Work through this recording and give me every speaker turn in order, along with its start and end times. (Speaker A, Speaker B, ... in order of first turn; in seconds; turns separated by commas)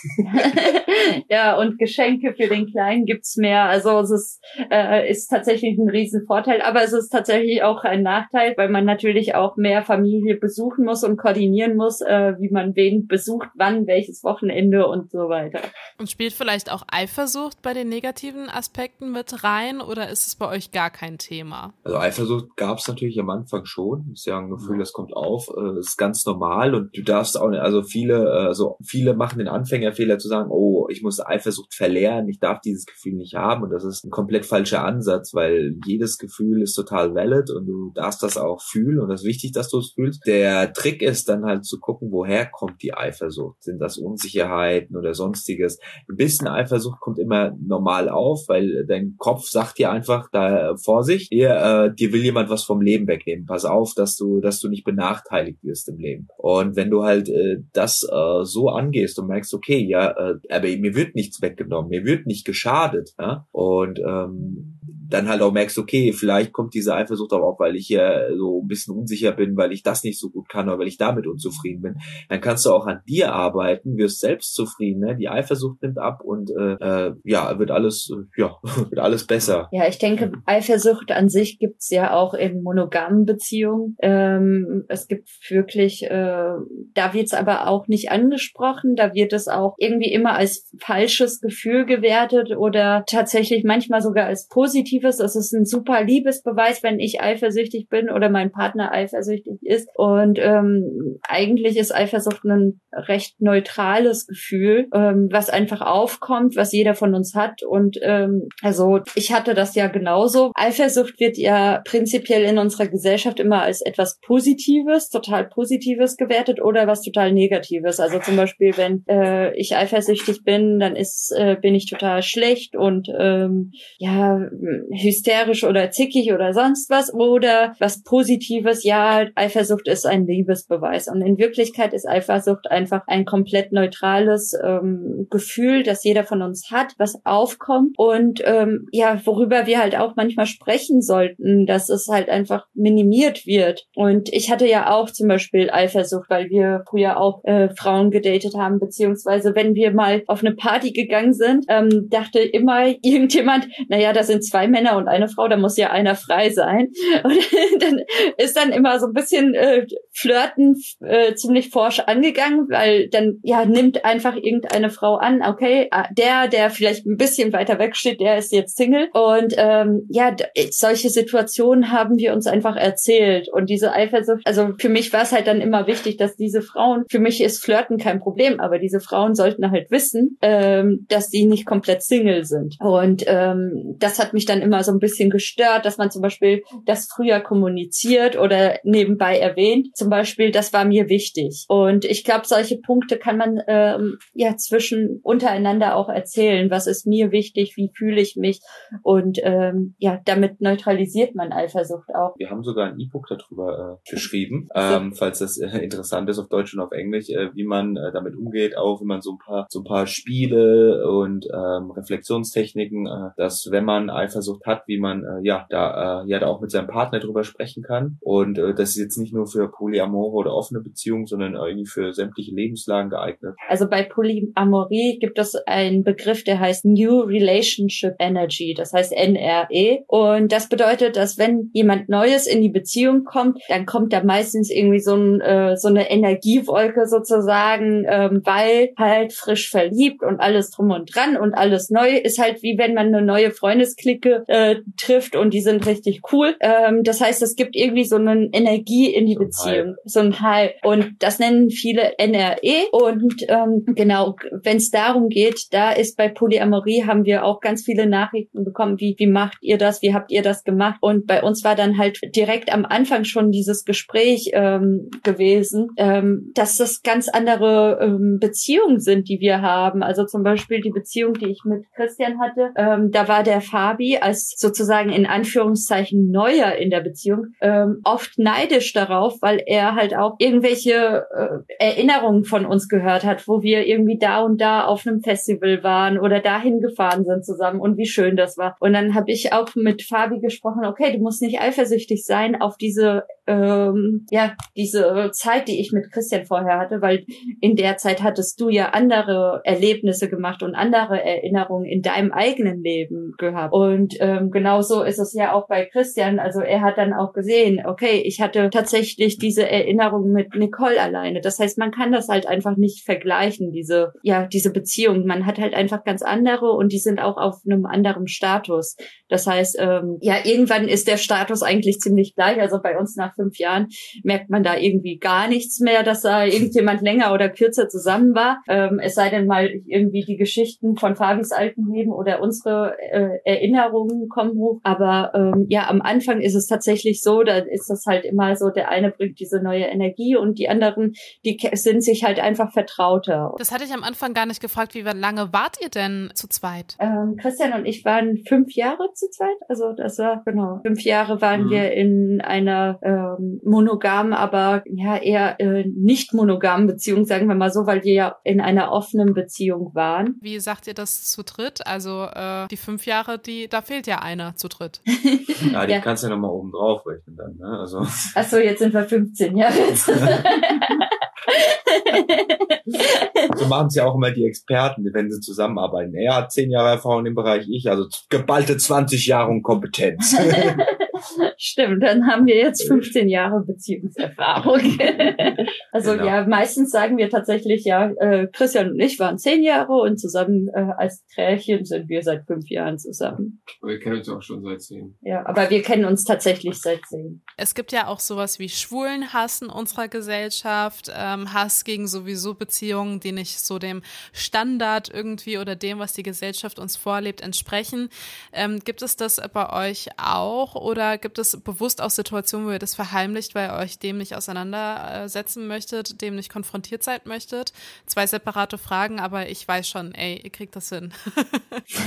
Speaker A: 0.2-15.7, Speaker B: 16.0-21.7, Speaker C: 21.9-79.7, Speaker D: 24.6-24.8, Speaker A: 79.7-202.4, Speaker C: 202.4-223.6, Speaker A: 204.8-205.0, Speaker A: 223.7-343.6, Speaker C: 249.4-249.9, Speaker B: 343.6-346.9, Speaker A: 347.0-360.4, Speaker D: 351.5-351.9, Speaker B: 360.4-365.0, Speaker A: 365.5-366.0, Speaker C: 365.7-368.3, Speaker A: 368.4-370.9, Speaker A: 371.5-373.2, Speaker C: 373.6-380.8, Speaker A: 381.6-393.6, Speaker C: 386.0-386.4, Speaker D: 393.8-395.2, Speaker A: 395.2-397.4, Speaker B: 397.6-421.8